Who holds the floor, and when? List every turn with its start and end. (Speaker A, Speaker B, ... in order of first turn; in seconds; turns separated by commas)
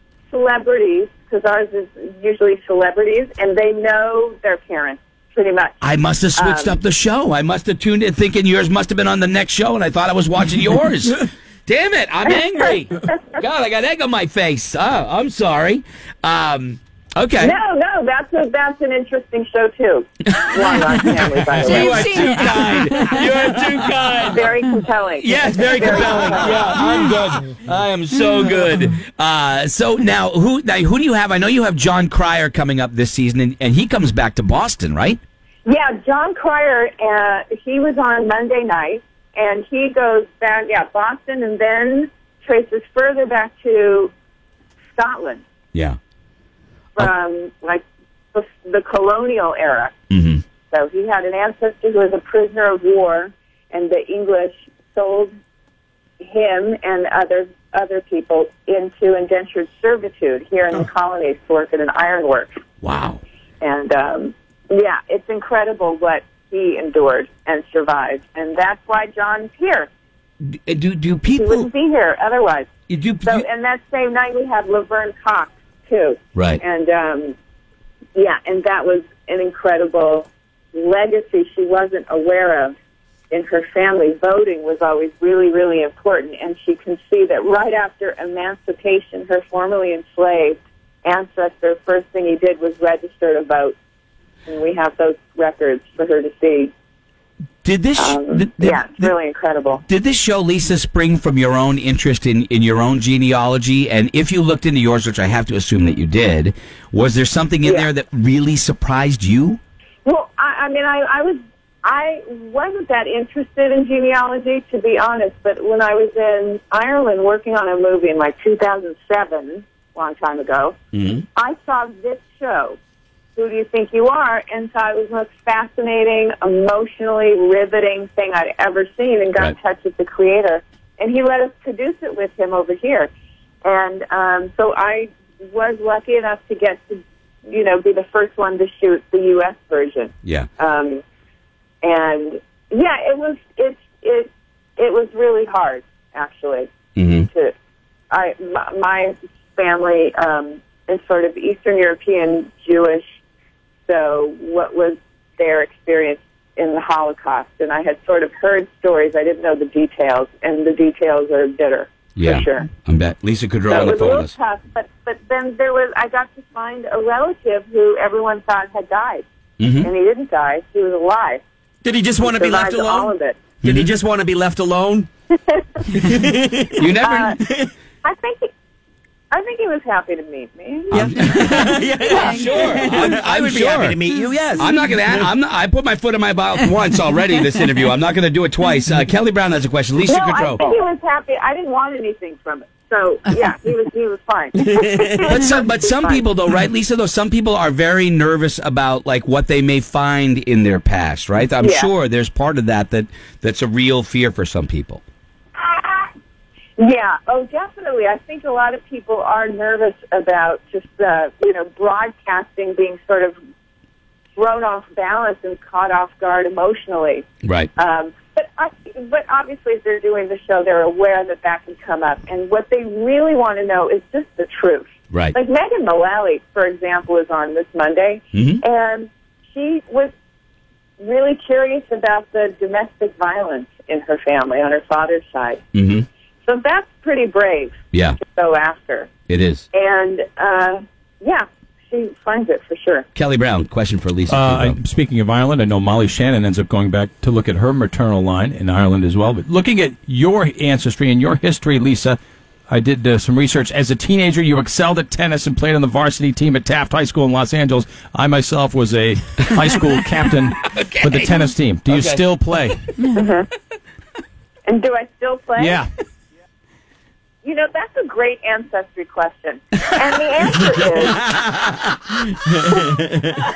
Speaker A: 0.3-5.8, Speaker B: 5.8-17.6, Speaker A: 6.3-6.8, Speaker A: 17.4-22.5, Speaker B: 20.4-24.5, Speaker C: 21.7-23.2, Speaker A: 24.3-26.8, Speaker B: 25.2-35.2, Speaker A: 35.6-44.1, Speaker A: 44.9-45.4, Speaker A: 46.9-49.9, Speaker B: 50.1-50.4, Speaker A: 50.7-55.3, Speaker A: 56.2-62.5, Speaker B: 62.8-63.2, Speaker A: 63.6-69.9, Speaker B: 70.4-71.7, Speaker A: 71.3-72.7, Speaker B: 72.9-73.5, Speaker A: 73.2-77.4, Speaker B: 76.3-76.6, Speaker A: 78.2-82.7, Speaker A: 83.3-93.8, Speaker A: 94.5-96.7, Speaker B: 97.6-99.1, Speaker A: 98.0-99.8, Speaker B: 99.9-109.6, Speaker A: 107.6-107.9, Speaker A: 110.0-120.8, Speaker B: 120.9-121.2, Speaker A: 121.3-122.8, Speaker A: 123.4-133.1, Speaker A: 133.6-141.0, Speaker A: 141.8-146.7, Speaker B: 146.9-147.3, Speaker A: 148.1-153.0, Speaker A: 153.9-162.7, Speaker B: 162.2-164.3, Speaker A: 163.7-169.2, Speaker B: 169.6-169.9, Speaker A: 169.8-171.4, Speaker D: 171.8-173.1, Speaker A: 172.2-173.4, Speaker B: 173.6-173.9, Speaker D: 173.6-175.1, Speaker D: 175.9-176.9, Speaker B: 176.8-177.4, Speaker A: 177.0-177.4, Speaker A: 178.0-178.5, Speaker A: 179.3-181.8, Speaker D: 180.9-185.3, Speaker B: 180.9-190.7, Speaker A: 190.1-196.3, Speaker B: 195.2-205.0, Speaker A: 201.6-201.9, Speaker A: 205.6-206.1, Speaker A: 206.8-213.4, Speaker A: 214.4-230.1, Speaker B: 217.4-217.7, Speaker B: 228.3-228.6, Speaker A: 231.0-235.6, Speaker B: 235.7-236.1, Speaker A: 236.4-239.1, Speaker B: 237.9-238.2, Speaker B: 239.3-239.6, Speaker A: 239.7-243.1, Speaker B: 243.1-244.8, Speaker C: 244.3-262.8, Speaker B: 260.7-262.2, Speaker A: 263.1-263.5, Speaker A: 264.7-265.8, Speaker C: 265.6-265.9, Speaker A: 267.4-271.2, Speaker B: 270.8-272.1, Speaker D: 272.7-273.4